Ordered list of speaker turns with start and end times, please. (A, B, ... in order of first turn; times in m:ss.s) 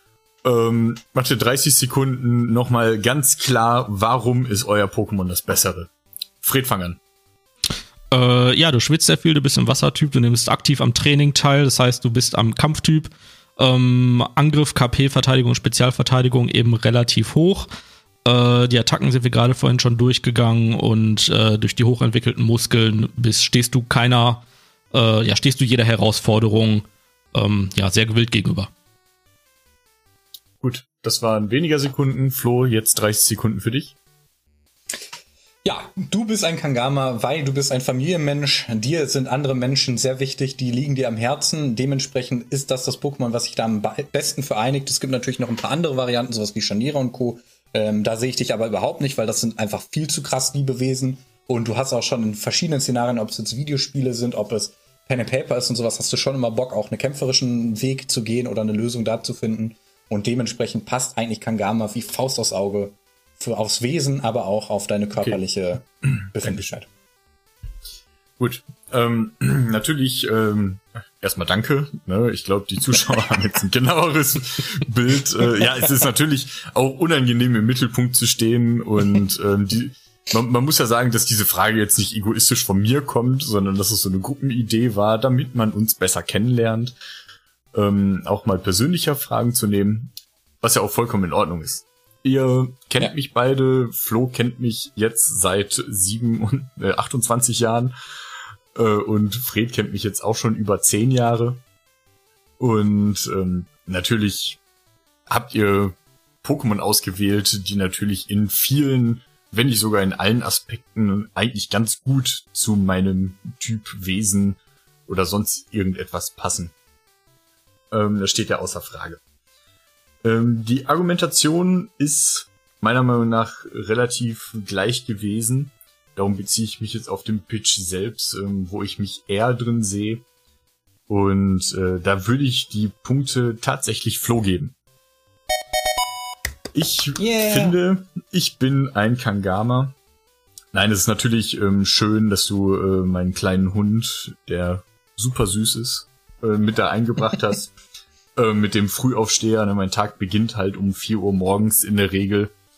0:00.4-0:05.9 A
0:06.4-0:07.0 A
0:08.1-0:17.7 B
0:18.2-0:28.7 B
0:30.6-0:34.0 A
0:35.6-1:06.9 C
1:08.4-1:27.0 A
1:27.7-1:37.9 A
1:38.8-1:41.6 A
1:42.6-1:44.6 A
1:45.3-1:56.7 A
1:57.9-1:59.2 A
2:00.2-2:10.2 A
2:11.1-2:14.7 A
2:16.7-2:20.0 A
2:17.2-2:17.8 C
2:20.7-2:27.7 A
2:28.4-2:32.5 A